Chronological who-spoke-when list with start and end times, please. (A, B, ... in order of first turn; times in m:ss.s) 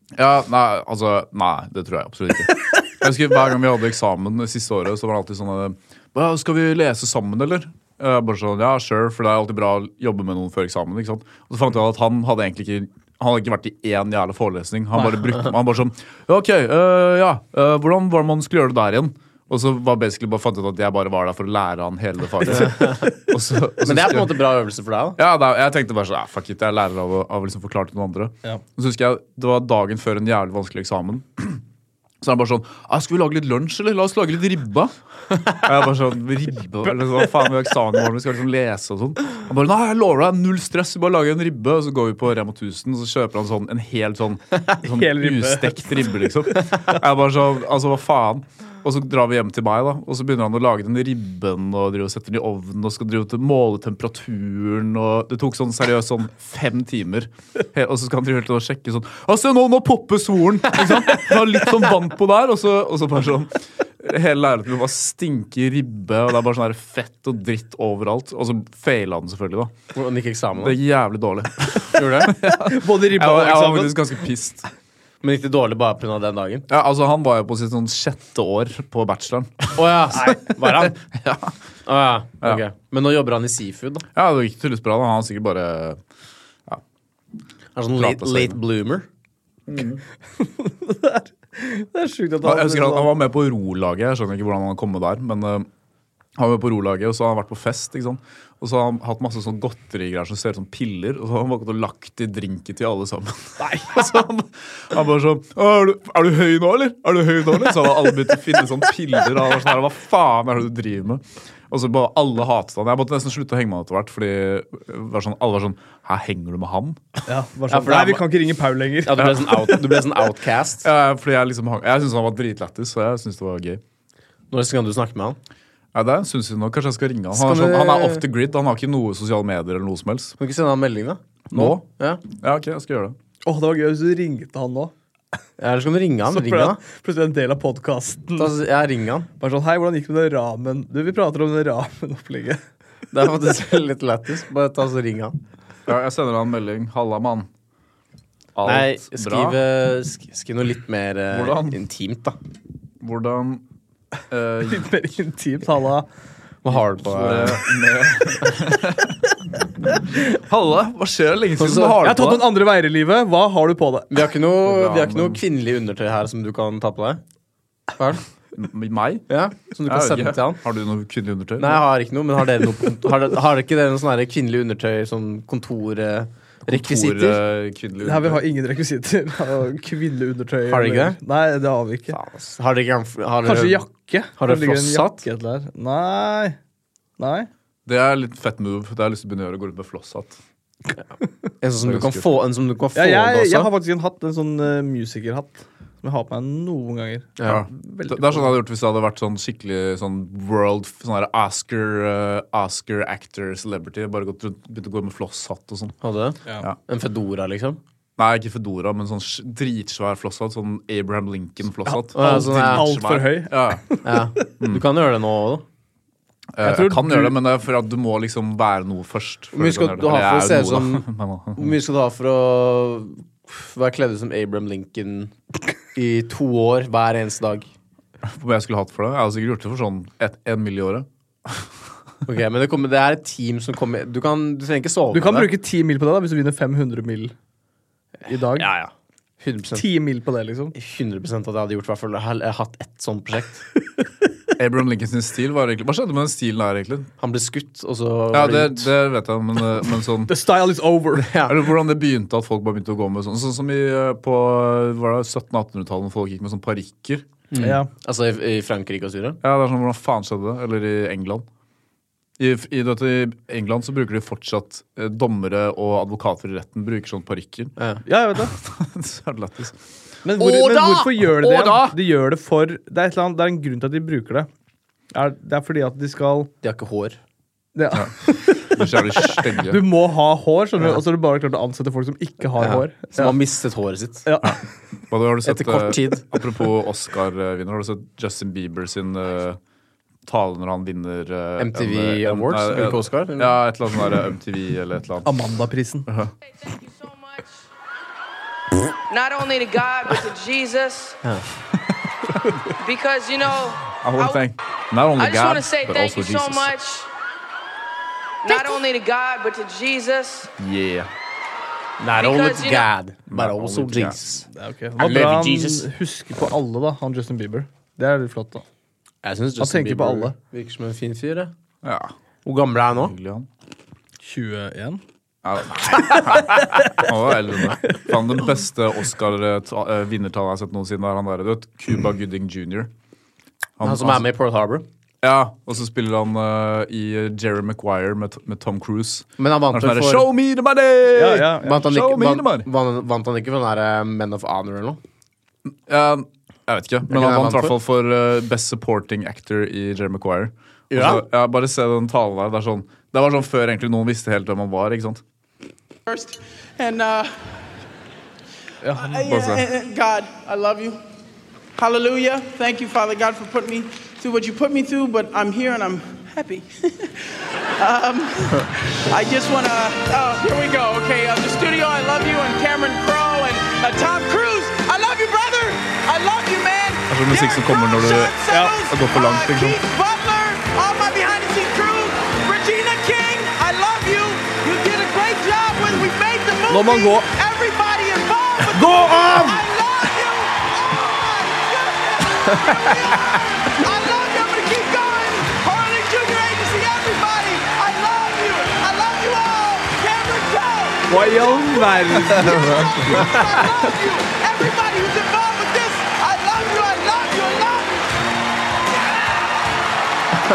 0:00.2-0:24.4 A
0:15.0-0:15.3 B
0:22.5-0:23.1 C
0:23.8-0:25.2 C
0:25.2-0:31.6 A
0:32.2-0:34.9 A
0:35.5-1:09.7 A
0:44.8-0:46.2 B
1:09.9-1:10.8 C
1:10.6-1:14.7 A
1:11.9-1:12.3 C
1:12.6-1:14.1 B
1:15.2-1:16.7 C
1:16.7-1:21.6 A
1:19.8-1:21.0 C
1:21.9-1:24.0 C
1:24.2-1:26.0 A
1:27.8-1:29.1 C
1:28.0-1:28.6 A
1:29.7-1:30.0 A
1:30.4-1:33.1 B
1:32.4-1:35.7 A
1:36.4-1:57.0 A
1:43.6-1:44.0 B
1:57.3-1:59.8 B
1:57.7-1:58.2 C
1:59.0-2:00.9 C
2:00.8-2:03.8 A
2:04.5-2:05.4 C
2:05.9-2:10.4 A
2:07.3-2:08.2 C
2:10.4-2:12.2 C
2:11.5-2:13.2 A
2:13.4-2:14.9 B
2:15.6-2:16.8 C
2:16.3-2:18.5 B
2:18.4-2:19.3 C
2:19.4-2:22.6 B
2:23.1-2:25.4 C
2:25.9-2:27.5 A
2:28.6-2:29.6 A
2:28.6-2:32.4 C
2:31.3-2:31.8 A
2:33.0-2:33.6 A
2:34.3-2:34.9 A
2:34.6-2:36.1 B
2:36.6-2:37.6 C
2:36.7-2:39.2 A
2:40.3-2:42.5 A
2:41.6-2:42.0 C
2:42.0-2:44.3 B
2:44.1-2:47.2 C
2:44.6-2:45.4 A
2:48.0-2:48.2 C
2:48.6-2:49.3 A
2:49.3-2:50.6 C
2:49.9-2:51.8 A
2:51.6-2:57.4 C
2:56.7-2:58.4 A
2:58.0-3:02.2 B
3:00.7-3:01.2 C
3:02.1-3:03.8 C
3:03.4-3:06.6 B
3:04.4-3:05.3 C
3:07.2-3:07.5 B
3:07.9-3:10.4 A
3:11.6-3:13.7 C
3:11.8-3:12.3 A
3:13.0-3:18.6 B
3:17.4-3:17.6 C
3:17.5-3:26.0 A
3:26.0-3:27.8 C
3:28.2-3:33.8 A
3:31.9-3:34.4 B
3:32.1-3:33.0 C
3:34.0-3:35.6 C
3:36.6-3:41.8 A
3:36.6-3:37.4 B
3:39.5-3:41.0 C
3:41.6-3:45.3 C
3:46.0-3:47.7 C
3:48.2-3:51.7 A
3:52.3-3:55.5 C
3:55.1-3:57.3 B
3:58.2-3:59.8 C
3:58.3-3:58.7 B
3:59.8-4:00.7 B
4:00.7-4:03.6 C
4:04.6-4:07.1 A
4:07.2-4:08.9 C
4:08.3-4:10.3 A
4:10.3-4:11.3 B
4:11.2-4:11.6 C
4:11.4-4:17.3 A
4:17.5-4:19.4 C
4:17.6-4:17.9 B
4:19.4-4:21.5 A
4:22.4-4:27.7 A
4:27.8-4:28.0 C
4:28.1-4:28.5 B
4:28.4-4:29.8 A
4:30.2-4:34.5 B
4:30.4-4:32.0 A
4:35.1-4:36.5 B
4:36.6-4:37.2 C
4:37.8-4:43.4 B
4:38.7-4:39.8 A
4:42.6-4:44.3 C
4:44.2-4:44.6 B
4:45.1-4:49.6 A
4:45.4-4:46.4 C
4:50.3-4:55.3 A
4:51.6-4:53.6 C
4:55.2-4:56.1 B
4:56.4-4:57.6 D
4:59.1-5:01.2 D
5:02.8-5:04.4 D
5:04.0-5:06.7 A
5:05.2-5:07.1 D
5:08.4-5:10.5 D
5:10.6-5:11.1 A
5:12.0-5:14.5 C
5:12.2-5:12.9 D
5:13.3-5:14.2 A
5:14.5-5:18.6 B
5:15.0-5:15.9 C
5:19.2-5:21.5 C
5:19.6-5:20.3 B
5:21.8-5:22.1 A
5:22.4-5:23.1 C
5:23.0-5:23.5 A
5:24.2-5:25.0 B
5:25.4-5:32.9 A
5:26.1-5:27.0 B
5:27.8-5:28.1 B
5:33.8-5:34.3 A
5:33.8-5:34.9 C
5:35.2-5:42.7 A
5:39.4-5:40.3 C
5:41.1-5:41.8 B
5:41.6-5:45.0 C
5:45.9-5:55.2 A
5:47.1-5:47.8 C
5:50.9-5:51.2 C
5:56.1-5:57.6 E
5:58.8-5:59.2 B
5:58.9-6:01.0 E
5:59.3-5:59.6 A
6:01.8-6:48.0 E
6:17.1-6:18.4 A
6:18.5-6:18.8 B
6:18.9-6:19.8 A
6:26.7-6:27.3 B
6:28.7-6:29.6 B
6:41.1-6:43.3 B
6:42.6-6:43.1 A